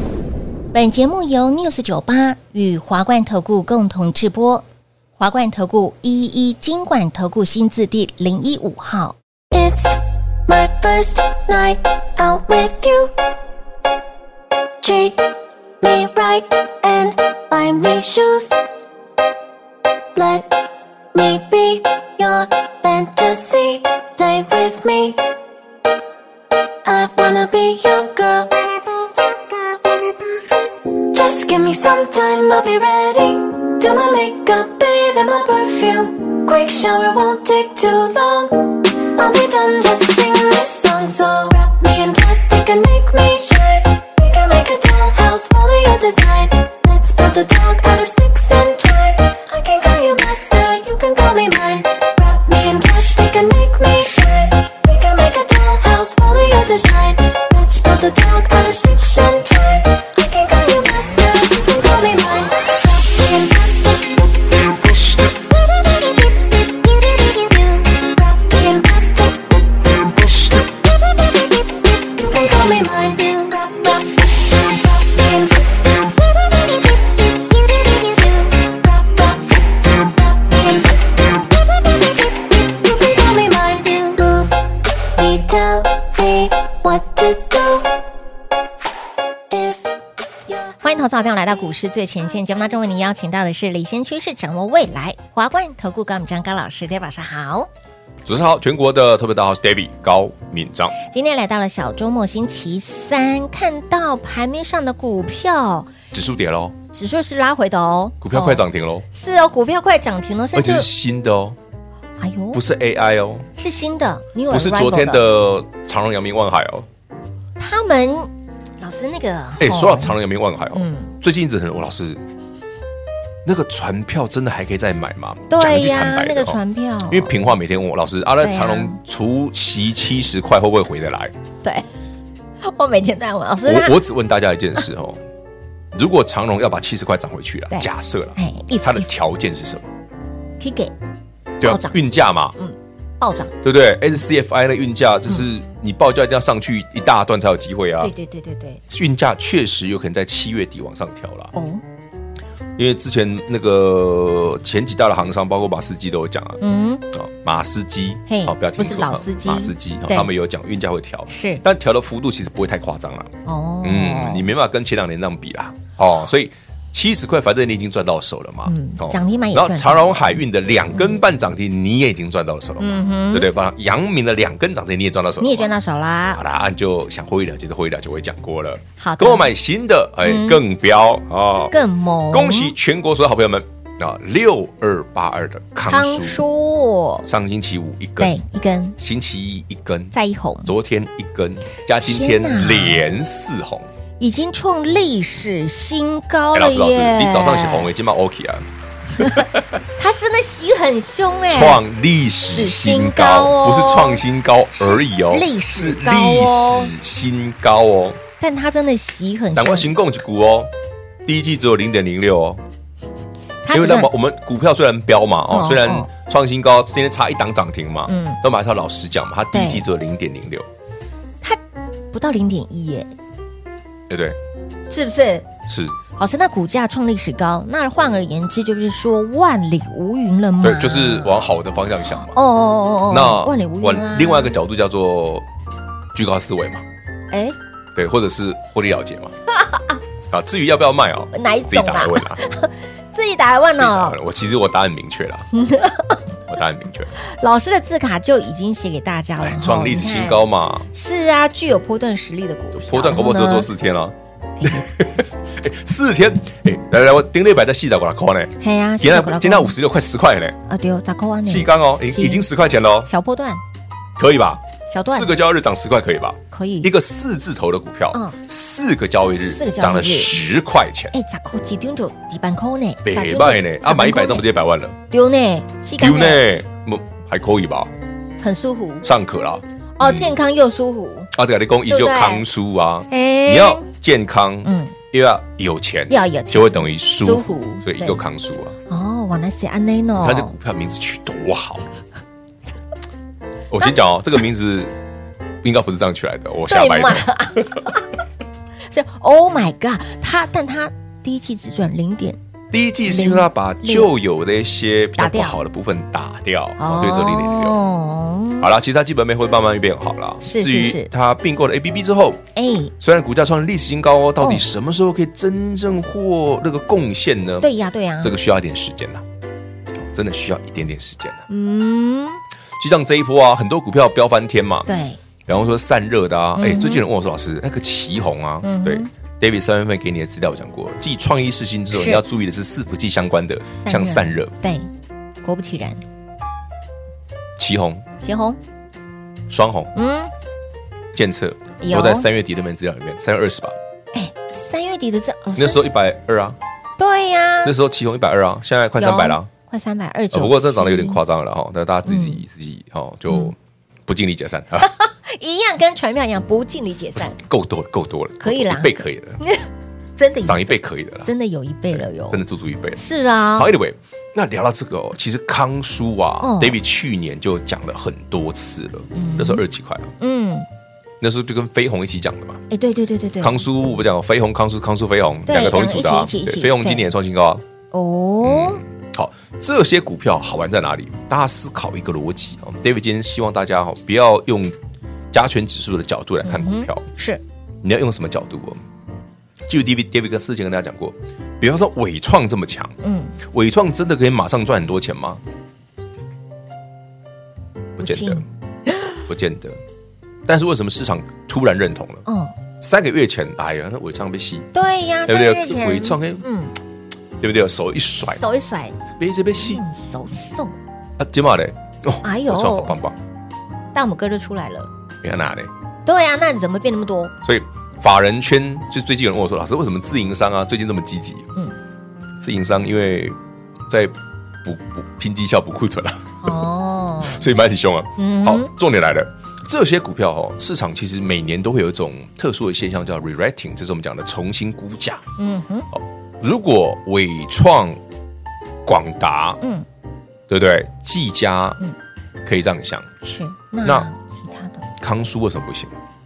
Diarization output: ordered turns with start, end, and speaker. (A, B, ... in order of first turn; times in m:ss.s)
0:00.7-0:04.6 A
0:05.2-0:09.1 A
0:09.5-0:13.1 B
0:14.8-0:18.6 B
0:20.1-0:25.2 B
0:26.8-0:28.6 B
0:31.0-1:05.3 B
1:07.0-1:10.7 B
1:12.0-1:16.0 B
1:17.8-1:21.6 B
1:22.5-1:24.6 B
1:25.1-1:28.0 B
1:29.5-1:29.8 B
1:30.8-1:37.7 A
1:38.2-1:41.0 C
1:41.0-1:45.9 A
1:46.1-1:46.7 C
1:46.9-1:50.9 A
1:48.2-1:49.0 C
1:50.5-1:51.6 C
1:52.2-1:52.6 A
1:52.5-1:53.5 C
1:53.6-1:55.3 A
1:54.5-1:56.9 C
1:57.6-1:58.3 A
1:58.8-2:00.2 A
1:59.6-2:02.2 C
2:00.7-2:01.1 A
2:03.4-2:11.3 C
2:05.5-2:07.3 A
2:08.4-2:09.0 A
2:12.6-2:14.0 A
2:13.6-2:15.2 C
2:15.9-2:19.9 C
2:17.7-2:19.1 A
2:20.6-2:20.9 A
2:21.6-2:22.6 C
2:21.6-2:22.0 A
2:22.6-2:23.5 A
2:23.6-2:28.1 C
2:28.0-2:28.8 A
2:28.9-2:31.5 C
2:31.5-2:31.8 A
2:32.8-2:36.6 C
2:36.6-2:37.0 A
2:37.1-2:55.7 C
2:38.3-2:40.3 A
2:41.3-2:41.6 A
2:43.4-2:44.5 A
2:48.6-2:51.2 A
2:52.8-2:53.5 A
2:55.4-2:56.4 A
2:56.3-3:01.7 C
2:59.0-2:59.5 A
3:00.2-3:00.6 A
3:01.7-3:02.7 A
3:02.3-3:06.4 C
3:05.9-3:07.3 A
3:07.2-3:08.3 C
3:08.2-3:09.0 A
3:09.0-3:13.8 C
3:10.1-3:10.7 A
3:12.0-3:13.0 A
3:14.2-3:17.9 A
3:16.5-3:18.6 C
3:19.2-3:21.8 A
3:19.2-3:19.6 C
3:21.5-3:28.2 C
3:22.4-3:24.2 A
3:24.8-3:26.9 A
3:28.4-3:29.9 A
3:29.5-3:30.7 C
3:31.2-3:32.6 C
3:33.6-3:34.1 A
3:33.7-3:40.7 C
3:35.5-3:36.1 A
3:38.0-3:38.4 A
3:39.5-3:39.8 A
3:42.1-3:43.1 A
3:44.1-3:44.4 C
3:44.9-3:45.5 A
3:45.7-3:46.0 C
3:46.2-3:51.4 A
3:50.6-3:52.4 C
3:52.2-3:54.6 A
3:53.1-3:55.4 C
3:56.1-3:56.8 C
3:57.3-3:57.6 A
3:57.9-3:59.3 C
4:00.3-4:02.4 C
4:01.3-4:04.2 A
4:03.7-4:05.5 C
4:05.5-4:06.2 A
4:06.5-4:07.1 C
4:07.2-4:13.7 A
4:09.4-4:10.9 C
4:12.8-4:20.6 C
4:18.6-4:19.8 A
4:20.7-4:22.5 A
4:21.4-4:23.1 C
4:23.0-4:23.6 A
4:24.2-4:31.1 C
4:24.9-4:25.4 A
4:26.5-4:26.9 A
4:29.5-4:30.4 A
4:31.1-4:34.4 A
4:33.0-4:35.0 C
4:35.1-4:36.4 A
4:36.0-4:37.9 C
4:38.4-4:39.1 A
4:39.0-4:40.4 C
4:40.0-4:41.3 A
4:41.3-4:48.8 C
4:41.9-4:42.5 A
4:43.1-4:43.8 A
4:44.6-4:44.9 A
4:46.1-4:48.2 A
4:48.9-4:50.5 A
4:50.2-4:51.8 C
4:53.7-4:54.9 C
4:55.6-4:57.8 C
4:56.7-4:58.1 A
4:58.9-5:02.4 A
5:02.7-5:07.8 C
5:03.0-5:04.1 A
5:05.2-5:05.6 A
5:06.8-5:08.7 A
5:08.6-5:12.4 C
5:10.4-5:11.1 A
5:12.5-5:12.9 A
5:13.0-5:17.7 C
5:17.6-5:18.3 A
5:18.2-5:19.2 C
5:20.1-5:21.4 C
5:21.5-5:22.4 A
5:22.8-5:24.9 C
5:24.9-5:25.2 A
5:25.4-5:34.5 C
5:26.6-5:27.0 A
5:28.6-5:29.1 A
5:31.9-5:32.2 A
5:33.8-5:34.9 A
5:35.4-5:36.0 A
5:37.6-5:38.0 C
5:38.2-5:38.6 A
5:39.5-5:39.9 C
5:39.9-5:40.3 A
5:41.1-5:43.8 C
5:41.8-5:42.3 A
5:44.1-5:45.8 A
5:45.6-5:46.6 C
5:47.0-5:47.7 A
5:47.6-5:49.5 C
5:49.0-5:51.2 A
5:50.3-5:53.6 C
5:52.0-5:52.4 A
5:53.3-5:53.5 A
5:54.1-5:54.9 C
5:54.8-5:57.4 A
5:57.2-5:59.4 C
5:58.4-6:02.4 A
6:00.4-6:01.3 C
6:01.9-6:03.0 C
6:02.9-6:03.7 A
6:03.5-6:10.1 C
6:06.4-6:06.8 A
6:09.1-6:09.6 A
6:10.2-6:10.7 A
6:11.2-6:12.6 C
6:12.7-6:13.6 A
6:13.4-6:17.6 C
6:15.4-6:17.1 A
6:17.9-6:18.8 A
6:18.4-6:24.8 C
6:25.3-6:27.1 C
6:26.4-6:27.4 A
6:27.8-6:28.8 C
6:29.7-6:35.4 C
6:33.0-6:33.4 A
6:38.0-6:39.1 A
6:38.0-6:38.4 C
6:39.3-6:39.8 C
6:40.5-6:42.2 C
6:42.2-6:42.5 A
6:42.8-6:44.7 C
6:44.7-6:46.7 A
6:45.3-6:46.4 C
6:47.4-6:48.4 C
6:48.2-6:49.0 A
6:49.1-6:49.8 C
6:49.6-6:50.7 A
6:51.2-6:53.2 C
6:52.2-6:53.0 A
6:53.9-6:54.9 A
6:55.2-6:55.7 C
6:56.0-6:57.3 A
6:57.4-7:01.5 C
7:02.4-7:03.4 C
7:03.9-7:06.6 C
7:06.4-7:07.4 A
7:07.2-7:15.2 C
7:08.2-7:08.7 A
7:15.4-7:15.9 A
7:15.9-7:18.0 C
7:18.8-7:19.6 C
7:20.5-7:21.8 C
7:22.4-7:23.1 C
7:23.2-7:24.8 A
7:25.0-7:26.0 C